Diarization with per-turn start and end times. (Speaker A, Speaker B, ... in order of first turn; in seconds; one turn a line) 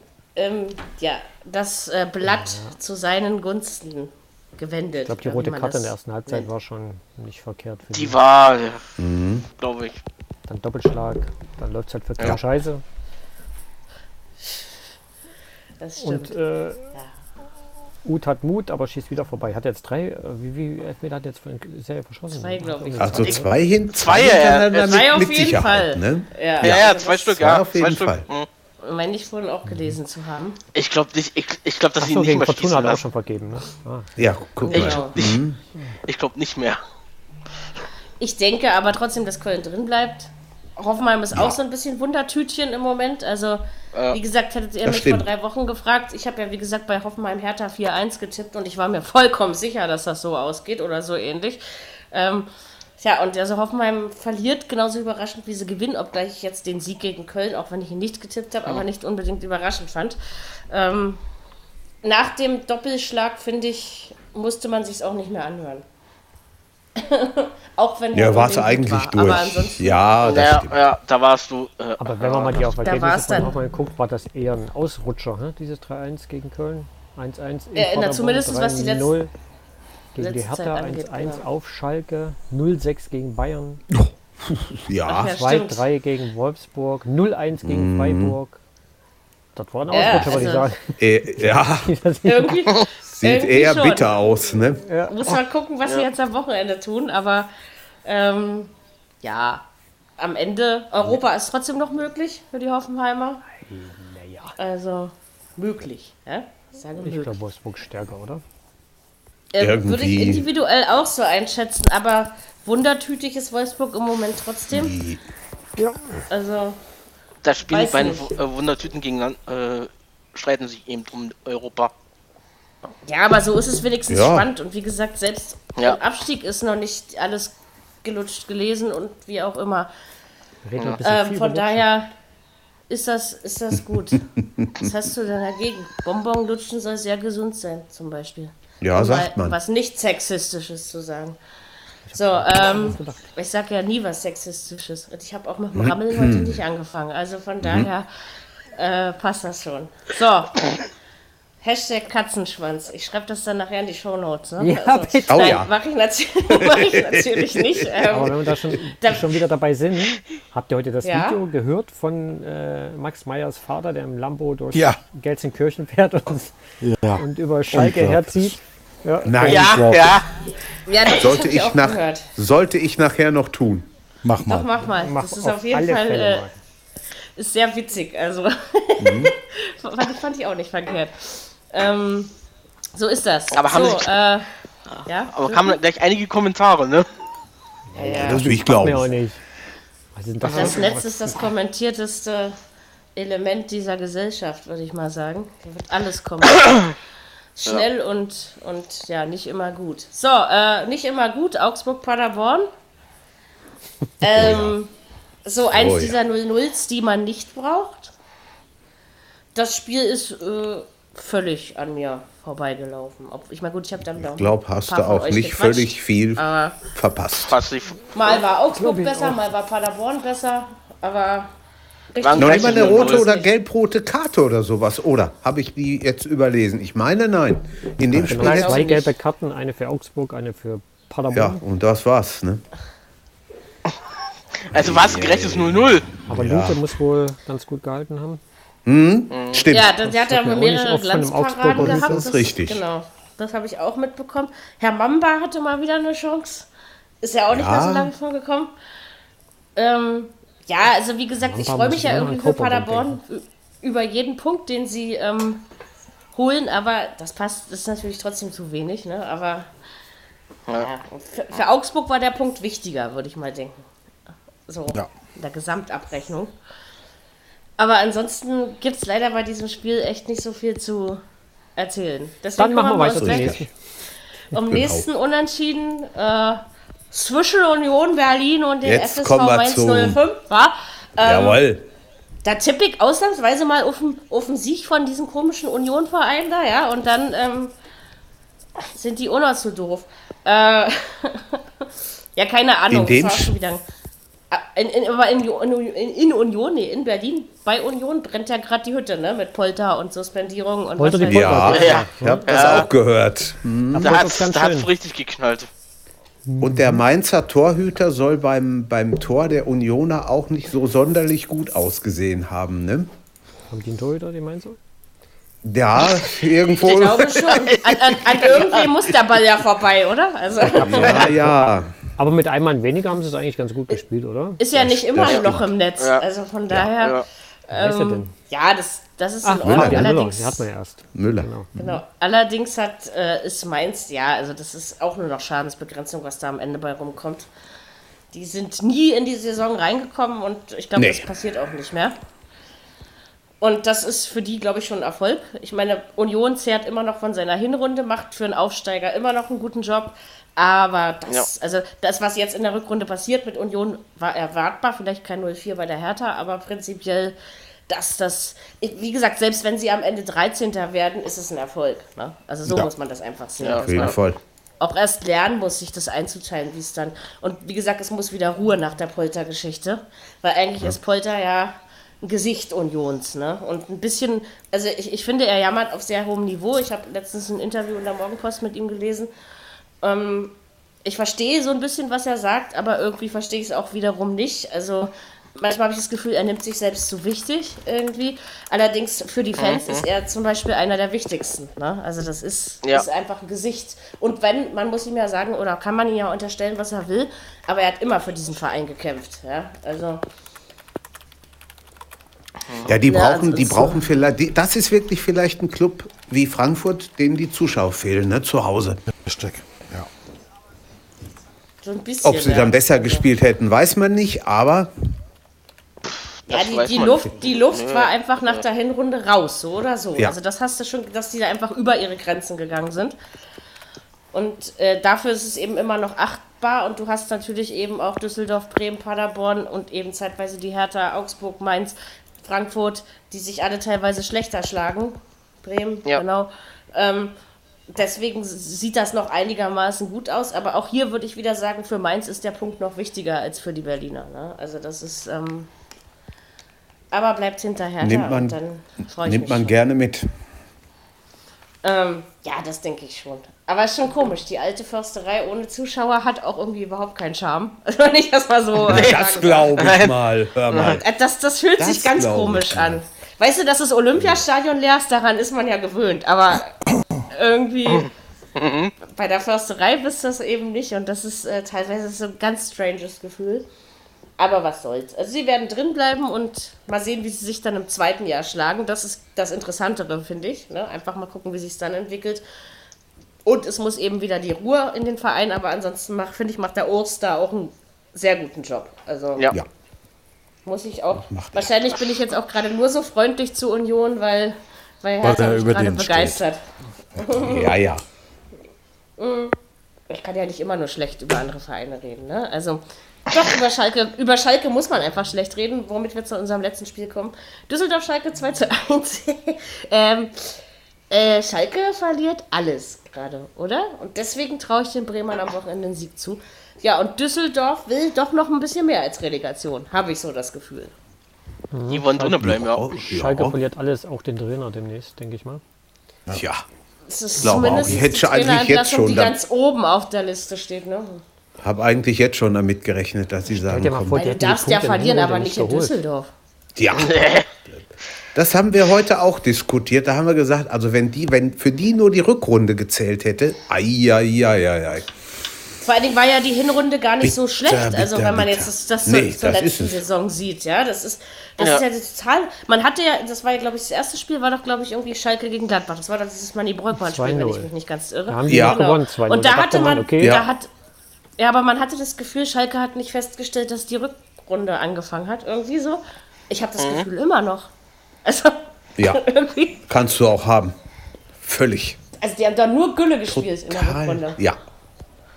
Speaker A: 0.3-6.5
Speaker B: 2.2-2.8
Speaker B: 5.0-8.2
Speaker C: 7.9-8.8
Speaker D: 9.0-9.5
Speaker C: 9.6-10.0
Speaker B: 10.5-12.8
Speaker A: 15.8-16.3
Speaker B: 16.0-16.9
Speaker B: 18.0-23.5
Speaker A: 22.3-23.3
Speaker D: 23.0-28.3
Speaker C: 23.9-25.0
Speaker A: 24.8-27.4
Speaker C: 26.6-28.5
Speaker A: 28.8-30.6
Speaker B: 29.7-30.0
Speaker C: 30.7-33.0
Speaker B: 32.0-34.1
Speaker D: 34.2-35.6
Speaker C: 34.7-35.4
Speaker A: 34.7-35.1
Speaker C: 36.1-36.8
Speaker A: 38.2-60.2
Speaker D: 41.3-41.6
Speaker D: 44.8-45.3
Speaker A: 60.7-61.2
Speaker A: 62.0-65.8
Speaker A: 67.0-70.0
Speaker D: 68.1-70.8
Speaker C: 70.2-72.7
Speaker B: 72.0-79.3
Speaker A: 72.8-73.5
Speaker A: 77.8-79.1
Speaker B: 80.1-83.8
Speaker A: 80.2-81.4
Speaker D: 83.9-85.4
Speaker A: 85.1-85.8
Speaker B: 85.3-88.6
Speaker D: 87.6-88.3
Speaker B: 89.5-92.7
Speaker A: 89.9-90.7
Speaker D: 91.0-91.9
Speaker A: 92.2-94.1
Speaker D: 93.1-94.8
Speaker B: 94.8-95.2
Speaker A: 95.1-97.5
Speaker A: 98.0-99.6
Speaker A: 100.2-103.4
Speaker B: 103.6-104.5
Speaker A: 104.6-107.3
Speaker B: 107.0-108.4
Speaker A: 109.5-114.9
Speaker D: 109.6-110.5
Speaker D: 114.7-115.2
Speaker B: 115.8-116.2
Speaker A: 116.3-116.8
Speaker C: 117.4-121.9
Speaker A: 117.7-118.3
Speaker A: 123.0-129.9
Speaker D: 124.1-124.5
Speaker B: 130.6-131.9
Speaker A: 131.0-132.1
Speaker A: 132.9-141.4
Speaker D: 134.4-134.7
Speaker D: 138.8-139.6
Speaker B: 142.1-143.3
Speaker A: 142.2-148.1
Speaker D: 145.7-146.6
Speaker D: 147.6-147.9
Speaker A: 148.8-150.6
Speaker A: 151.6-159.3
Speaker B: 154.6-155.6
Speaker D: 155.3-155.7
Speaker D: 156.5-158.2
Speaker B: 158.1-166.5
Speaker A: 161.0-161.4
Speaker E: 164.7-165.0
Speaker E: 166.8-168.5
Speaker B: 167.2-169.7
Speaker D: 169.2-169.8
Speaker E: 169.4-170.1
Speaker C: 169.5-170.3
Speaker A: 170.8-172.3
Speaker D: 171.1-173.9
Speaker E: 174.2-174.7
Speaker A: 174.4-176.4
Speaker B: 175.0-176.6
Speaker A: 177.4-182.3
Speaker D: 179.0-179.3
Speaker A: 182.9-184.4
Speaker C: 183.5-184.1
Speaker C: 184.9-187.1
Speaker A: 185.1-185.8
Speaker B: 187.9-189.4
Speaker A: 187.9-188.4
Speaker D: 188.1-189.1
Speaker B: 190.1-191.4
Speaker A: 190.5-192.6
Speaker A: 193.1-196.9
Speaker A: 197.6-202.7
Speaker A: 204.2-204.9
Speaker D: 204.2-204.8
Speaker A: 205.4-208.1
Speaker D: 205.7-206.2
Speaker A: 209.5-216.8
Speaker D: 214.2-217.6
Speaker C: 217.5-218.4
Speaker A: 218.1-221.5
Speaker B: 218.7-219.5
Speaker A: 222.1-223.5
Speaker C: 222.2-223.2
Speaker D: 222.3-228.8
Speaker B: 228.1-231.6
Speaker A: 228.4-229.1
Speaker D: 231.3-232.6
Speaker C: 234.7-236.1
Speaker D: 234.7-236.8
Speaker B: 236.3-238.4
Speaker D: 238.8-239.9
Speaker C: 239.3-239.6
Speaker A: 239.7-246.7
Speaker B: 239.9-242.3
Speaker D: 241.7-242.8
Speaker A: 247.2-248.7
Speaker D: 247.5-248.1
Speaker A: 249.8-255.6
Speaker B: 251.4-253.2
Speaker A: 256.3-259.7
Speaker A: 260.7-263.8
Speaker A: 264.7-266.5
Speaker A: 267.8-271.2
Speaker A: 271.8-273.6
Speaker B: 272.6-273.7
Speaker D: 273.1-273.6
Speaker A: 274.5-281.6
Speaker D: 274.5-275.1
Speaker D: 278.8-280.2
Speaker D: 281.2-281.9
Speaker A: 282.4-287.7
Speaker A: 288.9-291.6
Speaker A: 292.4-293.8
Speaker D: 292.9-293.6
Speaker A: 294.5-301.9
Speaker B: 301.0-302.8
Speaker D: 301.2-304.2
Speaker C: 301.7-302.9
Speaker B: 303.9-304.9
Speaker C: 304.0-305.7
Speaker B: 306.4-307.0
Speaker D: 306.6-313.1
Speaker B: 313.7-314.8
Speaker D: 315.6-317.6
Speaker A: 316.8-321.4
Speaker C: 317.5-318.9
Speaker B: 320.6-324.6
Speaker D: 320.7-321.9
Speaker A: 324.6-330.6
Speaker D: 324.7-325.7
Speaker C: 325.2-326.2
Speaker C: 326.9-327.2
Speaker B: 327.7-328.3
Speaker B: 329.4-332.0
Speaker D: 329.6-330.1
Speaker D: 331.1-332.0
Speaker A: 331.8-337.5
Speaker A: 338.3-342.2
Speaker D: 340.9-341.3
Speaker A: 343.6-357.4
Speaker A: 357.9-364.2
Speaker C: 363.6-364.1
Speaker D: 363.8-364.4
Speaker A: 364.8-379.3
Speaker A: 380.0-400.2
Speaker C: 389.6-390.0
Speaker D: 402.8-409.0
Speaker A: 403.0-404.1
Speaker E: 409.2-410.1
Speaker A: 411.8-413.2
Speaker D: 412.2-414.9
Speaker C: 416.0-418.6
Speaker A: 416.5-423.2
Speaker A: 424.3-437.3
Speaker A: 437.9-445.7
Speaker A: 447.1-449.7
Speaker D: 448.0-448.6
Speaker D: 449.2-450.3
Speaker A: 451.8-459.8
Speaker C: 458.8-459.2
Speaker D: 458.9-461.0
Speaker C: 459.8-460.2
Speaker C: 460.7-461.0
Speaker A: 460.8-466.8
Speaker D: 461.8-463.0
Speaker D: 464.1-464.4
Speaker A: 467.3-468.1
Speaker C: 467.9-468.9
Speaker A: 469.0-473.7
Speaker A: 474.4-482.4
Speaker A: 483.4-489.5
Speaker A: 490.6-496.6
Speaker D: 491.1-491.7
Speaker E: 495.2-496.4
Speaker A: 497.2-497.7
Speaker D: 497.3-498.0
Speaker A: 499.2-499.6
Speaker A: 500.1-510.5
Speaker A: 511.1-520.9
Speaker B: 521.7-525.6
Speaker C: 521.9-522.8
Speaker D: 522.2-523.6
Speaker D: 526.3-526.6
Speaker A: 527.1-531.2
Speaker D: 527.4-529.4
Speaker D: 531.6-534.2
Speaker B: 533.5-536.0
Speaker A: 534.1-536.3
Speaker D: 536.8-537.8
Speaker C: 536.9-537.5
Speaker D: 538.3-545.1
Speaker A: 545.8-560.7
Speaker D: 547.2-550.0
Speaker C: 551.6-551.8
Speaker B: 556.9-557.7
Speaker B: 558.3-560.4
Speaker D: 558.5-558.8
Speaker D: 560.2-560.5
Speaker A: 561.4-567.7
Speaker C: 566.8-567.1
Speaker A: 568.2-569.8
Speaker D: 569.9-570.7
Speaker D: 571.4-572.0
Speaker A: 572.2-574.4
Speaker D: 573.3-574.6